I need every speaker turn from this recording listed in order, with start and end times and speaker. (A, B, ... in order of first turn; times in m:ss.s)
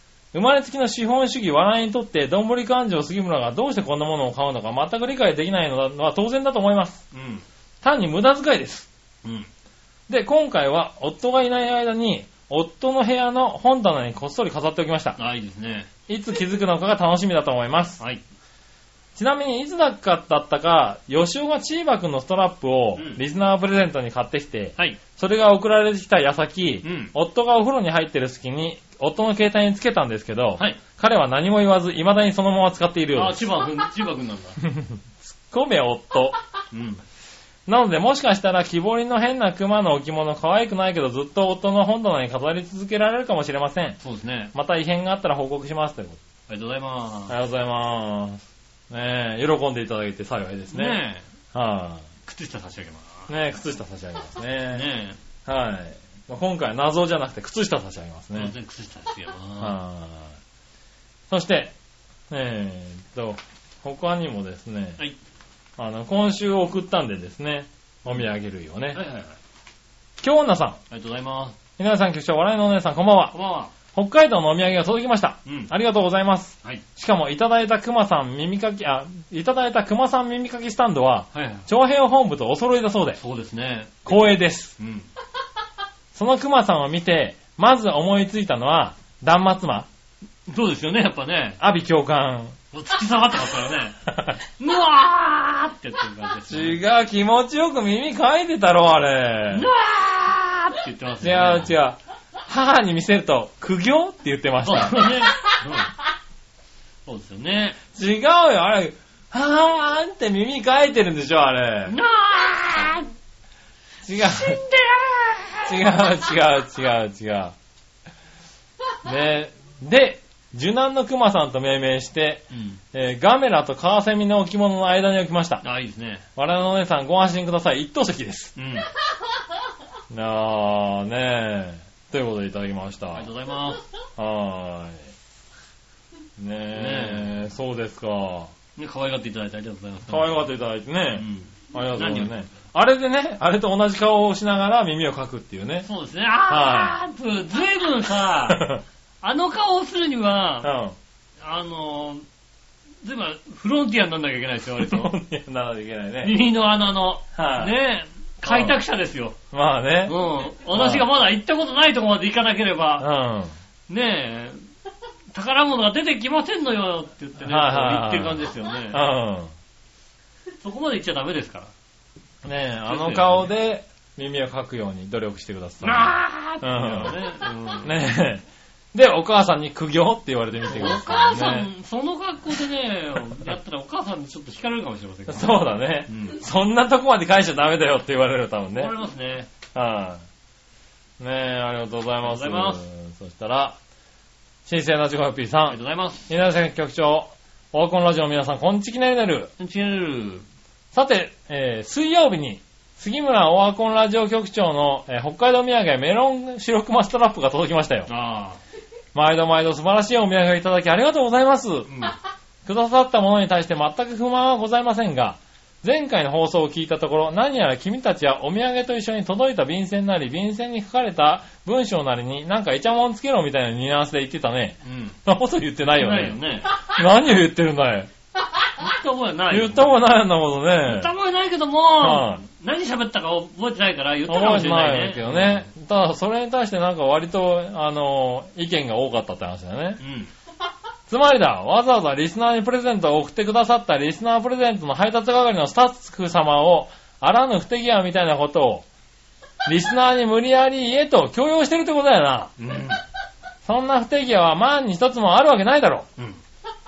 0:00.3-0:07.0 A
0:07.1-0:07.4 B
0:07.8-0:08.9 A
0:09.2-0:09.5 B
0:10.1-0:15.2 A
0:15.2-0:15.9 B
0:16.1-0:18.0 A
0:19.2-0:33.5 A
0:23.0-0:23.2 B
0:26.8-0:27.1 B
0:33.1-0:34.6 B
0:34.6-0:36.4 A
0:36.7-0:37.0 B
0:37.7-0:44.0 A
0:44.0-0:44.5 B
0:44.5-0:46.2 A
0:46.5-0:47.3 B
0:47.3-0:51.0 A
0:50.7-0:51.3 B
0:51.5-0:52.1 A
0:52.2-0:53.3 B
0:53.3-0:54.9 A
0:54.7-0:55.2 B
0:55.4-0:58.5 A
0:58.3-0:59.8 B
0:59.6-1:00.4 A
1:01.3-1:01.7 A
1:02.3-1:05.0 A
1:05.8-1:09.0 A
1:08.9-1:09.4 B
1:10.2-1:10.8 A
1:10.9-1:11.6 B
1:11.8-1:13.4 A
1:13.3-1:13.7 B
1:13.9-1:23.2 A
1:15.4-1:15.7 B
1:21.3-1:21.7 B
1:23.2-1:24.1 B
1:24.0-1:24.8 A
1:24.8-1:25.1 B
1:26.1-1:29.9 A
1:30.5-1:31.6 B
1:31.6-1:32.6 A
1:32.7-1:36.8 B
1:34.1-1:34.4 A
1:36.5-1:39.7 A
1:39.5-1:41.8 B
1:41.2-1:45.3 A
1:44.6-1:45.9 B
1:47.0-1:47.8 B
1:47.9-1:52.0 A
1:51.9-1:53.1 B
1:54.0-1:54.6 A
1:54.1-1:56.0 B
1:55.6-1:57.5 A
1:59.0-2:05.6 A
2:02.5-2:02.8 B
2:05.6-2:06.2 B
2:06.4-2:08.5 A
2:08.6-2:08.8 B
2:10.1-2:13.3 A
2:13.1-2:13.8 B
2:14.2-2:15.1 A
2:16.4-2:18.5 A
2:16.7-2:17.3 B
2:18.8-2:20.5 B
2:20.1-2:25.9 A
2:21.1-2:22.4 B
2:25.8-2:28.6 B
2:26.5-2:27.0 A
2:28.4-2:28.8 A
2:29.2-2:30.7 B
2:30.6-2:31.0 A
2:31.4-2:32.2 B
2:33.0-2:35.1 B
2:34.8-2:36.4 A
2:36.2-2:39.4 B
2:37.3-2:37.8 A
2:38.4-2:38.8 A
2:39.5-2:40.2 A
2:40.1-2:43.1 B
2:40.7-2:41.1 A
2:43.0-2:43.5 A
2:43.9-2:44.6 B
2:45.3-2:49.0 B
2:47.4-2:49.5 A
2:50.6-2:51.7 B
2:52.4-2:57.2 A
2:52.8-2:53.5 B
2:55.8-2:58.0 B
2:57.8-3:01.7 A
3:00.7-3:06.4 B
3:05.3-3:08.9 A
3:08.7-3:09.5 B
3:09.7-3:10.2 A
3:11.2-3:13.8 A
3:12.2-3:12.8 B
3:14.6-3:19.5 A
3:15.7-3:16.3 B
3:19.6-3:20.4 B
3:20.9-3:28.1 A
3:28.1-3:28.6 B
3:29.1-3:31.9 A
3:31.8-3:32.1 B
3:32.6-3:48.1 A
3:44.8-3:45.2 B
3:46.0-3:46.7 B
3:48.8-3:49.9 B
3:49.5-3:51.1 A
3:50.8-3:55.7 B
3:52.0-3:52.4 A
3:54.3-4:00.0 A
4:00.0-4:00.3 B
4:01.1-4:08.8 A
4:09.6-4:12.5 A
4:12.6-4:13.0 B
4:13.6-4:16.1 A